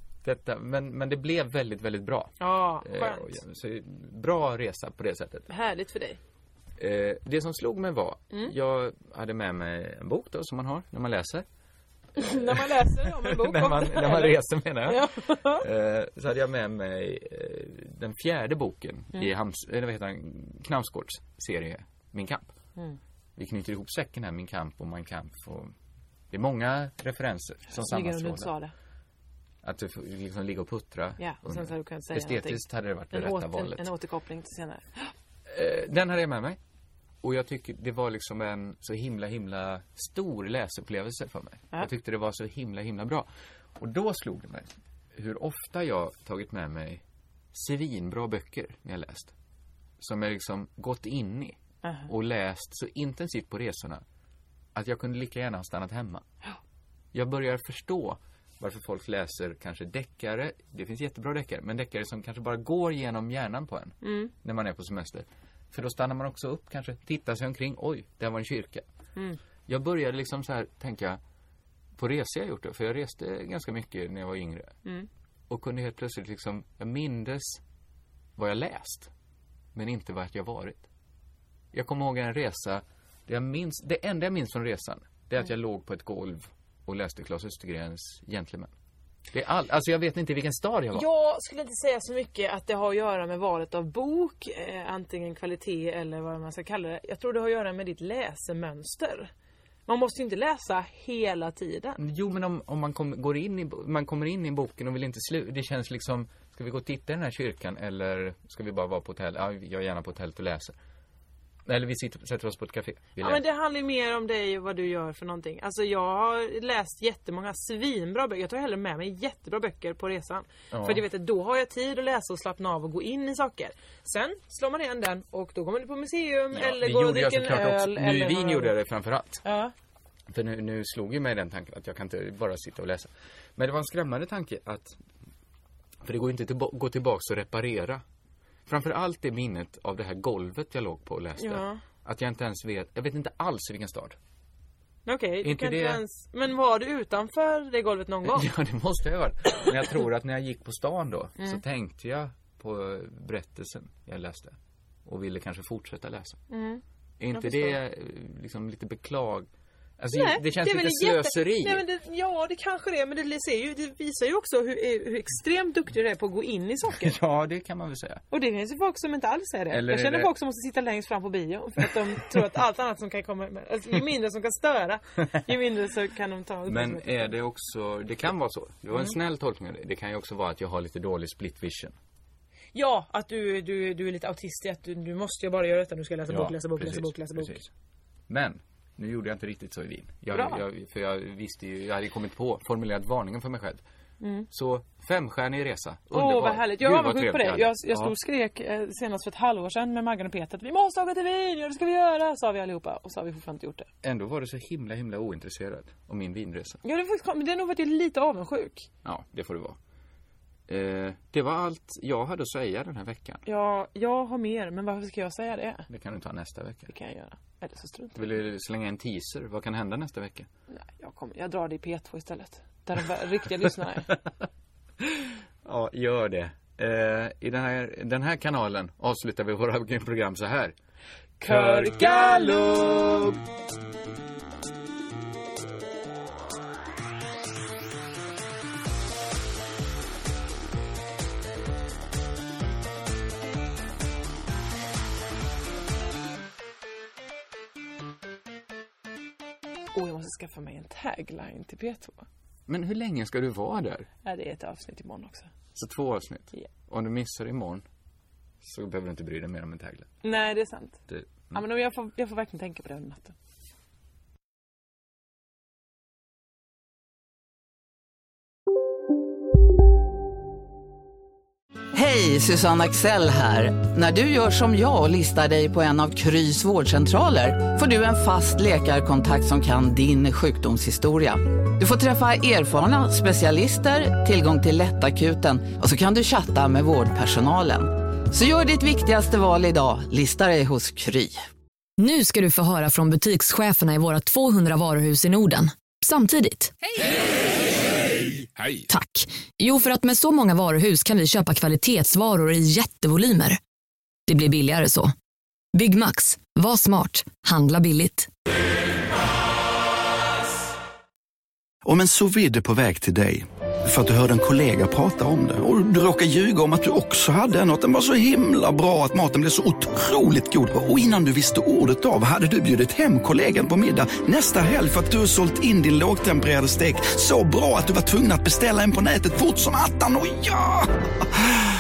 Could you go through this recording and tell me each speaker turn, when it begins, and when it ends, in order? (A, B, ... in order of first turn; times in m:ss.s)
0:00.2-0:05.5 A
0:02.4-0:03.4 B
0:05.5-0:06.2 B
0:06.8-0:11.4 A
0:12.2-0:15.6 B
0:12.2-0:22.5 A
0:23.4-0:25.7 A
0:26.3-0:28.5 A
0:27.7-0:28.7 B
0:29.6-0:33.9 A
0:31.2-0:35.1 B
0:35.5-0:36.6 A
0:37.2-0:49.3 A
0:50.0-0:54.0 A
0:51.8-0:52.1 B
0:54.7-0:56.2 A
0:57.1-1:08.9 A
1:04.0-1:04.3 B
1:09.7-1:11.2 A
1:12.0-1:14.8 A
1:15.5-1:17.6 A
1:18.4-1:19.1 A
1:19.7-1:20.9 A
1:21.7-1:28.7 A
1:29.3-1:31.0 A
1:30.9-1:39.3 B
1:39.9-1:42.0 B
1:42.0-1:50.8 A
1:51.7-1:53.4 A
1:53.2-2:08.7 B
2:00.7-2:01.0 A
2:06.5-2:09.4 A
2:09.4-2:09.7 B
2:10.3-2:15.0 A
2:16.0-2:18.0 A
2:18.7-2:24.2 A
2:21.4-2:21.8 B
2:25.1-2:28.5 B
2:25.4-2:26.0 A
2:28.2-2:36.4 A
2:36.5-2:36.8 B
2:37.2-2:41.8 A
2:37.4-2:37.8 B
2:40.1-2:47.1 B
2:47.0-2:48.2 A
2:48.3-2:57.4 B
2:49.7-2:50.3 A
2:56.7-3:02.0 A
3:02.7-3:07.6 B
3:06.3-3:07.7 A
3:08.3-3:13.8 A
3:10.3-3:10.6 B
3:14.2-3:14.5 B
3:14.5-3:18.1 A
3:16.1-3:23.9 B
3:24.0-3:26.8 A
3:26.8-3:28.9 B
3:29.0-3:29.8 A
3:30.7-3:33.4 A
3:33.4-3:35.9 B
3:35.9-3:36.9 A
3:36.9-3:38.3 B
3:38.2-3:40.5 A
3:40.7-3:44.1 B
3:45.0-3:50.7 A
3:51.4-3:52.8 B
3:51.4-3:53.4 A
4:10.0-4:12.3 B
4:12.7-4:14.1 A
4:14.2-4:15.5 B
4:15.7-4:17.8 A
4:18.6-4:20.1 A
4:20.2-4:21.0 B
4:21.1-4:21.6 A
4:21.5-4:23.3 B
4:31.9-4:51.4 C
4:52.0-4:56.7 D
4:58.9-5:03.6 D
5:04.3-5:05.1 D
5:05.7-5:08.3 D
5:11.8-5:30.9 E